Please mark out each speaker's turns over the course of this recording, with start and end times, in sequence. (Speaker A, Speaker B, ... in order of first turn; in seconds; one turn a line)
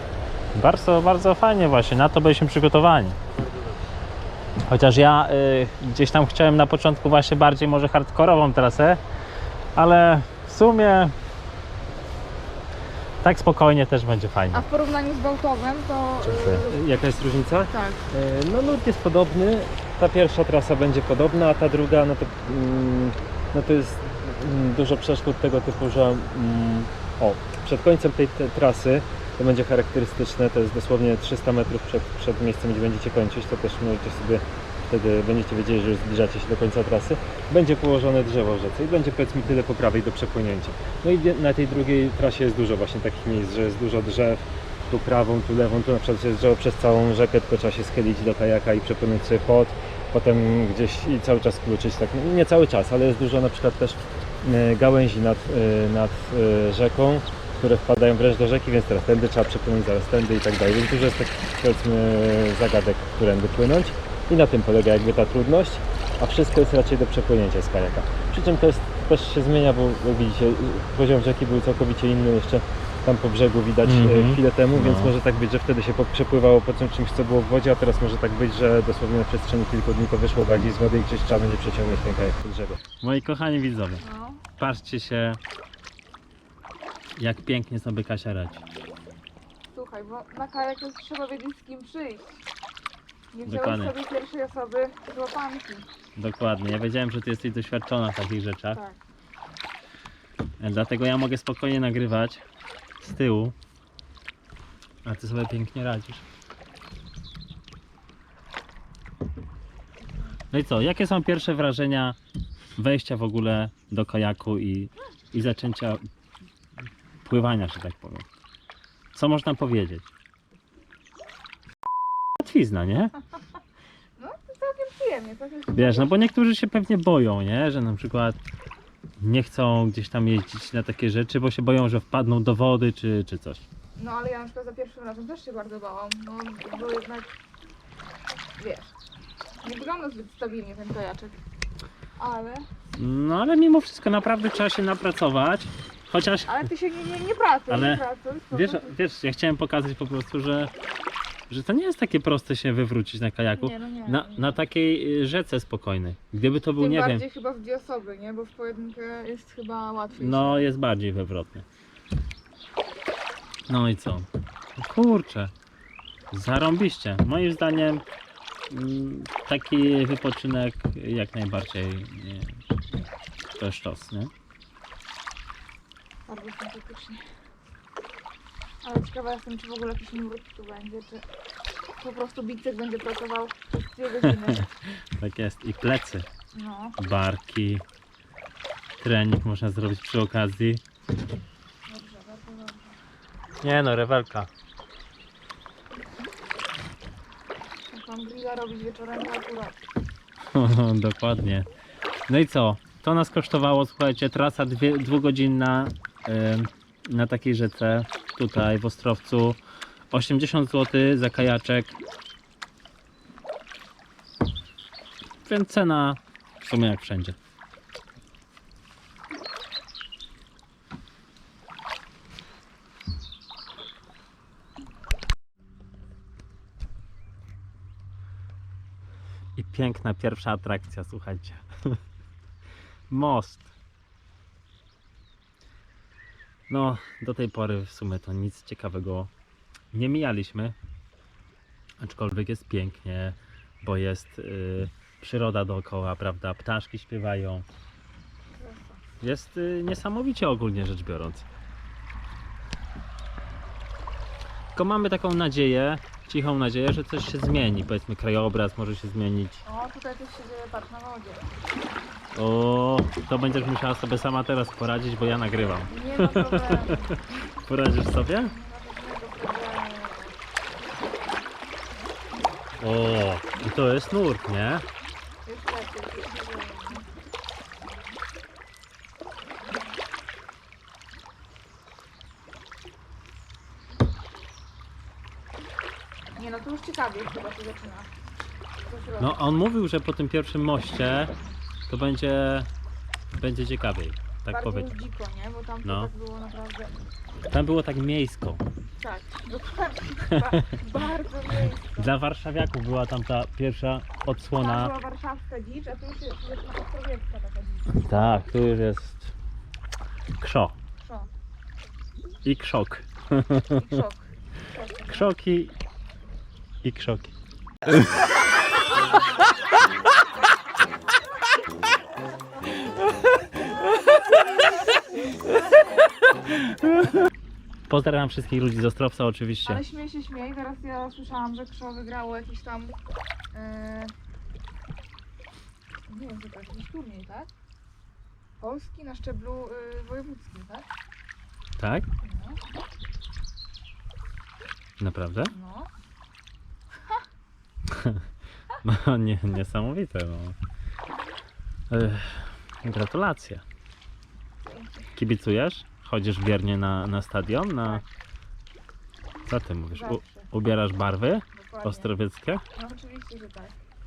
Speaker A: 0.6-3.2
Speaker B: 3.3-3.8
Speaker A: 4.7-9.0
Speaker A: 9.8-11.2
Speaker A: 13.2-14.6
Speaker C: 14.5-16.9
Speaker A: 16.2-16.7
Speaker B: 16.6-82.8
Speaker C: 17.7-18.0
Speaker A: 73.8-75.1
Speaker A: 83.0-84.0
Speaker C: 84.0-84.4
Speaker A: 84.6-85.4
Speaker A: 87.2-88.6
Speaker C: 89.7-92.4
Speaker C: 93.3-95.9
Speaker A: 93.5-93.9
Speaker A: 96.2-98.8
Speaker A: 100.6-102.4
Speaker A: 103.0-103.5
Speaker A: 105.0-106.2
Speaker A: 110.5-112.2
Speaker A: 112.8-116.0
Speaker A: 117.2-118.3
Speaker A: 119.1-120.1
Speaker A: 122.4-123.2
Speaker C: 124.2-126.3
Speaker A: 125.7-128.4
Speaker A: 129.2-133.7
Speaker C: 134.0-137.3
Speaker C: 138.6-138.9
Speaker C: 139.6-141.4
Speaker C: 142.2-142.7
Speaker A: 143.0-146.6
Speaker C: 146.5-148.9
Speaker A: 147.7-150.7
Speaker A: 151.5-157.2
Speaker C: 153.6-154.6
Speaker C: 156.8-160.7
Speaker A: 160.2-161.7
Speaker A: 163.7-165.5
Speaker A: 166.3-168.1
Speaker A: 168.7-172.6
Speaker A: 173.6-174.3
Speaker C: 176.3-177.2
Speaker C: 178.8-181.2
Speaker C: 182.0-184.7
Speaker A: 184.2-186.3
Speaker C: 186.5-187.0
Speaker A: 187.0-187.8
Speaker A: 189.0-190.8
Speaker C: 191.9-193.0
Speaker A: 193.6-194.5
Speaker C: 197.9-199.8
Speaker A: 200.5-201.7
Speaker A: 202.3-209.6
Speaker A: 210.1-212.0
Speaker A: 215.4-217.4
Speaker A: 229.6-232.0
Speaker A: 233.1-233.7
Speaker A: 236.7-239.3
Speaker A: 239.9-240.8
Speaker A: 242.0-247.7
Speaker C: 248.5-249.0
Speaker A: 249.2-251.4
Speaker A: 254.8-259.6
Speaker C: 259.7-261.5
Speaker A: 262.3-267.0
Speaker C: 265.9-267.2
Speaker A: 267.6-268.5
Speaker C: 268.4-270.4
Speaker A: 272.8-274.9
Speaker C: 275.5-277.1
Speaker C: 286.4-288.1
Speaker C: 288.9-289.4
Speaker A: 289.2-291.3
Speaker A: 291.9-292.7
Speaker A: 293.4-294.9
Speaker C: 294.5-297.0
Speaker A: 295.8-296.1
Speaker A: 297.5-298.6
Speaker C: 299.0-302.1
Speaker A: 300.3-300.7
Speaker A: 302.0-304.9
Speaker C: 304.6-308.4
Speaker A: 307.9-309.3
Speaker A: 310.4-310.8
Speaker C: 311.0-311.3
Speaker A: 312.4-314.0
Speaker C: 313.7-315.3
Speaker A: 315.1-315.7
Speaker A: 316.8-317.3
Speaker A: 327.9-329.8
Speaker C: 329.7-333.0
Speaker C: 333.5-334.1
Speaker C: 336.1-337.5
Speaker C: 338.6-340.9
Speaker A: 341.8-342.1
Speaker C: 342.2-342.6
Speaker A: 345.0-345.5
Speaker C: 345.5-345.9
Speaker A: 347.9-348.2
Speaker A: 348.8-350.6
Speaker A: 351.9-353.6
Speaker C: 354.6-355.1
Speaker A: 355.1-358.0
Speaker A: 359.5-362.6
Speaker C: 359.9-360.5
Speaker C: 361.5-362.1
Speaker C: 362.7-363.8